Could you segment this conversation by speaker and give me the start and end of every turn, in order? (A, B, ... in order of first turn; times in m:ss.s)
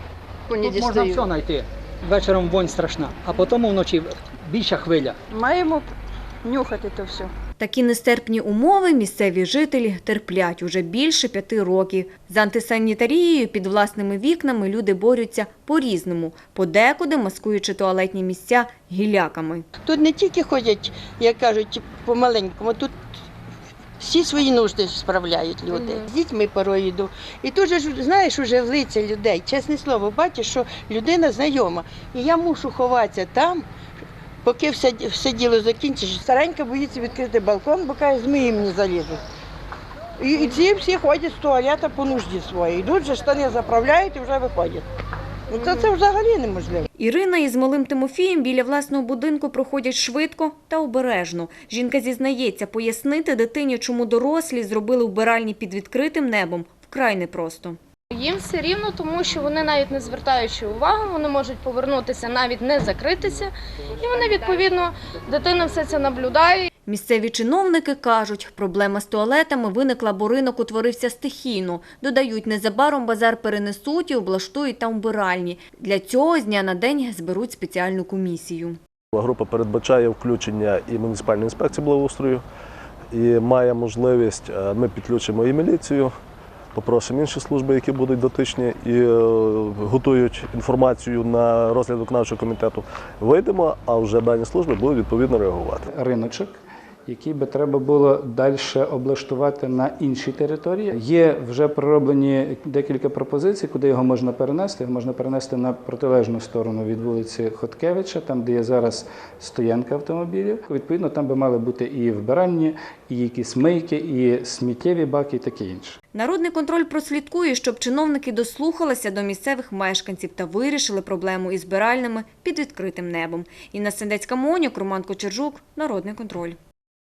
0:00.5-0:05.2 A
0:07.6-0:19.7 B
0:19.8-0:23.0 C
0:24.0-0:33.7 C
0:34.4-0:39.2 C
0:40.2-0:44.8 C
0:45.5-0:46.9 C
0:47.0-0:57.8 B
0:58.1-1:06.7 D
1:06.9-1:18.8 B
1:19.1-1:22.4 E
1:23.1-1:26.1 E
1:26.7-1:35.8 E
1:35.9-1:36.5 F
1:37.1-1:56.0 F
1:56.1-2:06.6 B